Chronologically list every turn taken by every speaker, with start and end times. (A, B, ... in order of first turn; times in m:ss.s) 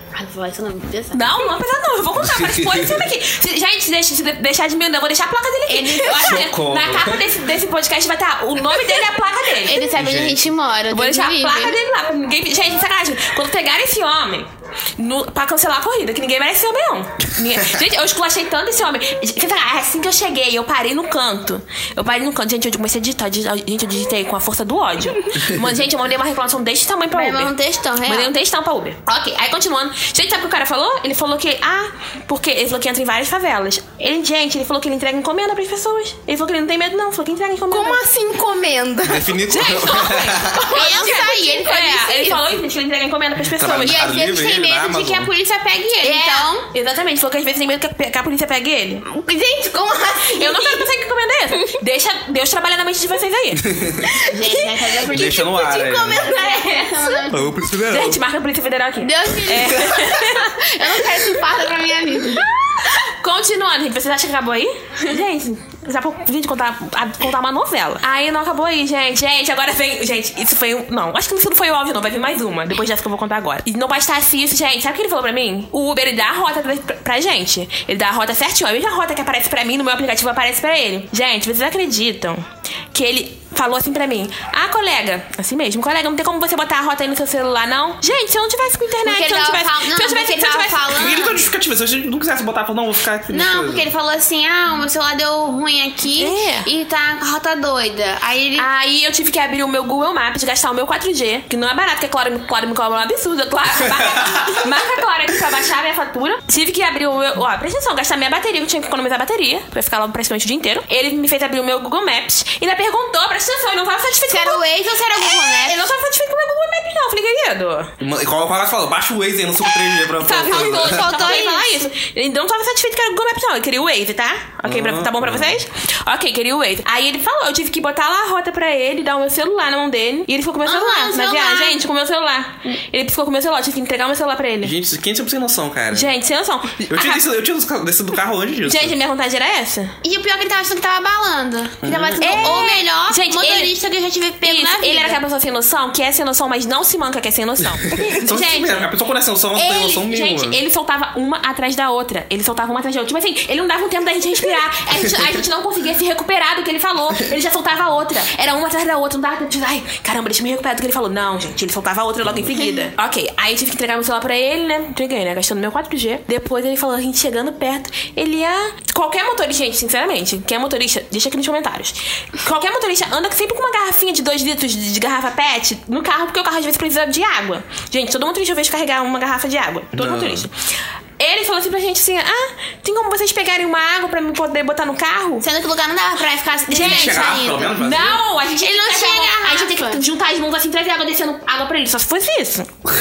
0:00.1-0:01.3 A
0:01.1-0:09.9 B
0:02.2-0:03.0 C
0:05.7-0:06.5 A
0:06.1-0:07.2 C
0:09.6-0:11.8 A
0:09.9-0:10.5 C
0:10.9-0:27.5 B
0:27.1-0:28.3 A
0:28.1-0:38.0 B
0:37.7-0:39.4 D
0:39.0-0:40.7 C
0:39.5-0:44.0 B
0:40.7-0:42.5 A
0:43.5-0:45.3 C
0:43.8-0:46.7 A
0:46.0-0:49.0 B
0:49.0-0:50.8 A
0:50.4-0:53.7 B
0:53.6-0:54.1 C
0:54.2-0:54.7 D
0:54.3-0:55.5 A
0:55.1-0:56.2 C
0:55.5-0:57.3 D
0:56.2-0:57.6 A
0:57.3-0:58.2 C
0:57.9-1:00.5 B
0:59.0-1:02.4 A
1:02.8-1:31.2 B
1:29.0-1:31.5 A
1:30.9-1:33.9 C
1:33.3-1:38.7 A
1:36.2-1:36.7 B
1:38.6-1:54.6 B
1:54.3-1:55.9 A
1:55.1-1:57.9 B
1:58.0-2:01.1 C
1:59.7-2:01.8 A
2:00.1-2:14.7 B
2:04.6-2:05.6 C
2:10.6-2:11.8 A
2:14.6-2:16.1 C
2:15.9-2:17.2 B
2:16.9-2:18.9 C
2:18.6-2:19.9 B
2:20.0-2:25.2 A
2:21.8-2:22.6 C
2:22.2-2:23.7 B
2:24.4-2:28.9 B
2:27.9-2:30.6 C
2:29.5-3:00.5 B
2:59.9-3:00.5 C
3:01.2-3:05.4 B
3:05.4-3:07.8 A
3:06.7-3:12.7 B
3:06.8-3:08.2 C
3:08.5-3:10.0 A